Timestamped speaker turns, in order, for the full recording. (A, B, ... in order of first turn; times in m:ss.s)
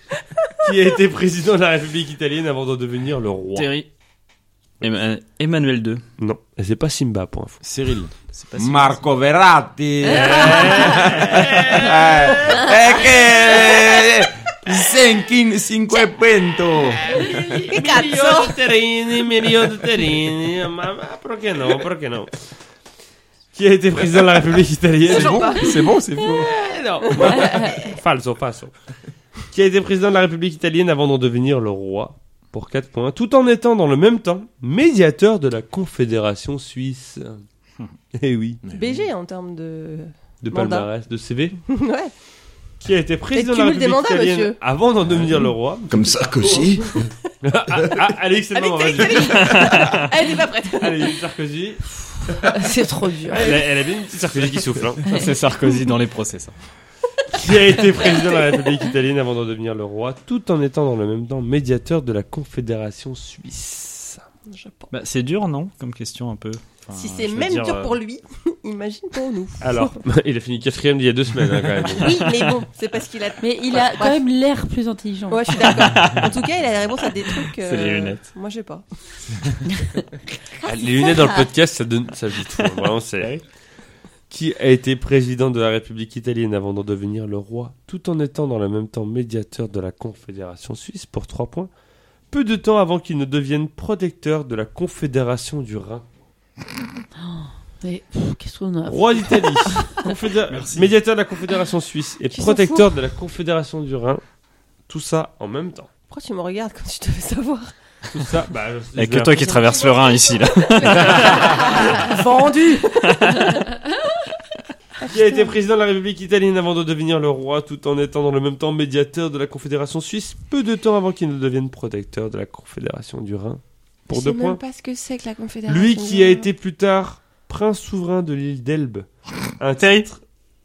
0:00.6-0:03.7 A
0:03.5-0:03.9 B
0:04.8-0:06.0 B
0:06.2-0:07.6 A
0:07.6-0:17.0 C
0:08.3-0:09.1 B
0:10.1-0:12.0 A
0:10.2-0:11.0 D
0:13.5-0:14.0 E
0:17.0-0:22.4 A
0:17.0-0:18.6 E
0:23.5-0:25.7 A
0:25.0-0:26.5 C
0:25.0-0:25.9 E
0:26.4-0:28.7 A
0:27.0-0:27.9 E
0:27.3-0:27.8 D
0:29.5-0:37.4 A
0:38.1-0:38.6 A
0:38.6-0:39.1 C
0:38.7-0:40.9 E
0:40.4-0:41.6 A
0:41.7-0:42.1 E
0:42.8-0:49.6 A
0:43.3-0:44.6 E
0:45.2-0:47.0 C
0:48.5-0:51.2 E
0:49.4-0:50.1 B
0:50.8-0:52.5 A
0:52.3-0:53.6 D
0:53.3-0:55.0 A
0:55.0-0:55.3 D
0:55.0-0:56.5 B
0:57.3-1:04.2 A
0:58.2-0:58.5 E
1:04.5-1:04.9 E
1:04.9-1:08.0 B
1:06.9-1:10.0 E
1:09.6-1:12.6 A
1:11.9-1:14.2 E
1:13.4-1:15.9 D
1:15.3-1:18.8 E
1:15.6-1:16.3 B
1:17.4-1:18.2 B
1:19.7-1:20.0 D
1:20.6-1:21.5 E
1:20.6-1:23.3 A
1:24.3-1:31.7 A
1:32.3-1:36.0 A
1:37.2-1:40.1 D
1:38.8-1:44.2 A
1:42.3-1:42.9 E
1:44.9-1:45.9 A
1:46.1-1:47.7 E
1:48.1-1:49.6 A
1:48.9-1:51.7 B
1:49.6-1:52.3 E
1:50.9-1:51.8 A
1:51.4-1:53.8 D
1:53.0-1:53.6 B
1:55.0-1:55.5 E
1:55.1-2:04.6 A
2:04.1-2:06.5 E
2:05.7-2:09.0 A
2:09.6-2:10.2 A